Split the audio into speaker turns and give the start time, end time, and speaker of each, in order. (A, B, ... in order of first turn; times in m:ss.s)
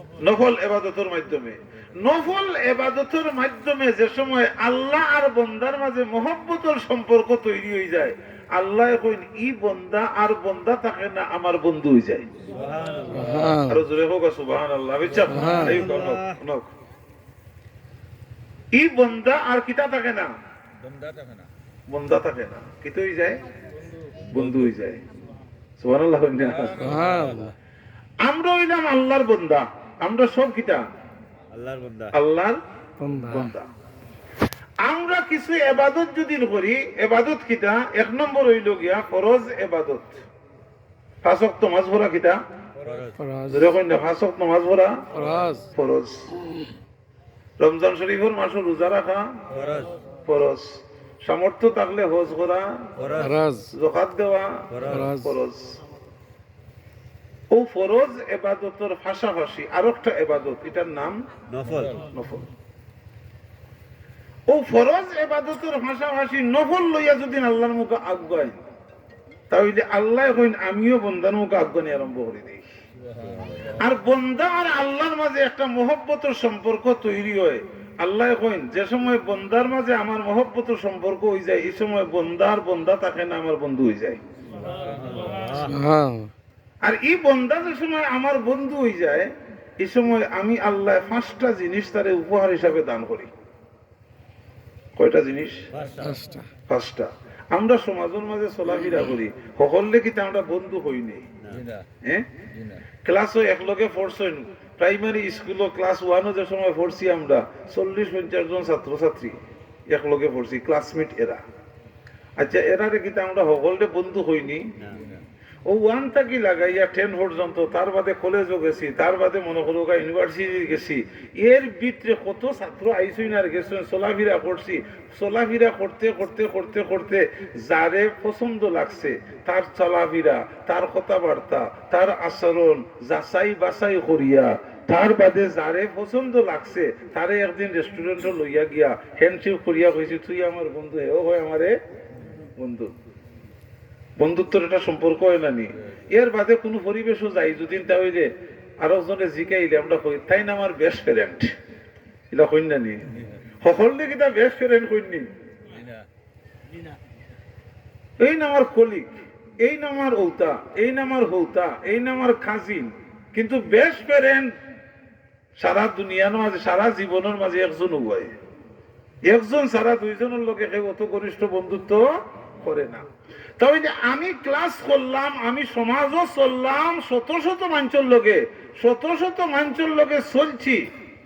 0:00.2-0:12.3 A
0:12.5-0:13.6 B
0:13.1-0:13.8 C
0:13.6-0:16.7 A
0:15.1-0:16.4 B
0:15.3-0:15.8 C
0:18.7-0:20.3 A
0:20.8-0:21.5 B
0:21.9-0:23.4 A
0:24.3-0:24.7 B
0:24.3-0:25.0 A
0:25.8-0:27.0 A
0:26.6-0:27.4 B
0:26.8-0:27.5 C
0:28.2-0:30.8 A
0:31.5-0:32.1 B
0:32.1-0:32.6 A
0:33.0-0:33.5 C
0:33.2-0:33.7 A
0:34.8-0:40.2 A
0:41.2-0:42.4 A
0:42.8-0:43.2 B
0:43.2-0:43.7 C
0:43.5-0:45.0 A
0:45.1-0:45.6 C
0:45.7-0:46.3 A
0:47.6-0:49.4 A
0:49.5-0:49.9 B
0:50.2-0:52.8 A
0:53.0-0:53.4 B
0:53.2-0:53.7 C
0:53.7-0:55.8 A
0:54.7-0:55.1 B
0:54.9-0:55.3 C
0:57.5-1:01.2 A
1:01.5-1:02.0 B
1:02.0-1:02.5 A
1:04.5-1:08.7 A
1:09.5-1:12.6 A
1:13.2-1:13.7 B
1:13.8-1:24.2 A
1:24.6-1:25.8 B
1:25.7-1:26.3 C
1:26.8-1:29.3 A
1:29.8-1:33.3 A
1:35.0-1:35.6 A
1:35.7-1:36.2 B
1:36.0-1:36.5 C
1:36.7-1:41.3 A
1:41.4-1:41.7 B
1:43.0-1:51.4 A
1:52.4-1:54.7 A
1:54.8-1:55.1 B
1:55.6-2:21.7 A
2:22.6-2:22.9 A
2:24.2-2:28.3 A
2:28.8-2:31.5 A
2:32.3-2:35.3 A
2:35.7-2:36.0 B
2:38.2-2:44.5 A
2:45.6-2:48.3 A
2:49.2-2:53.0 A
2:53.6-3:00.9 A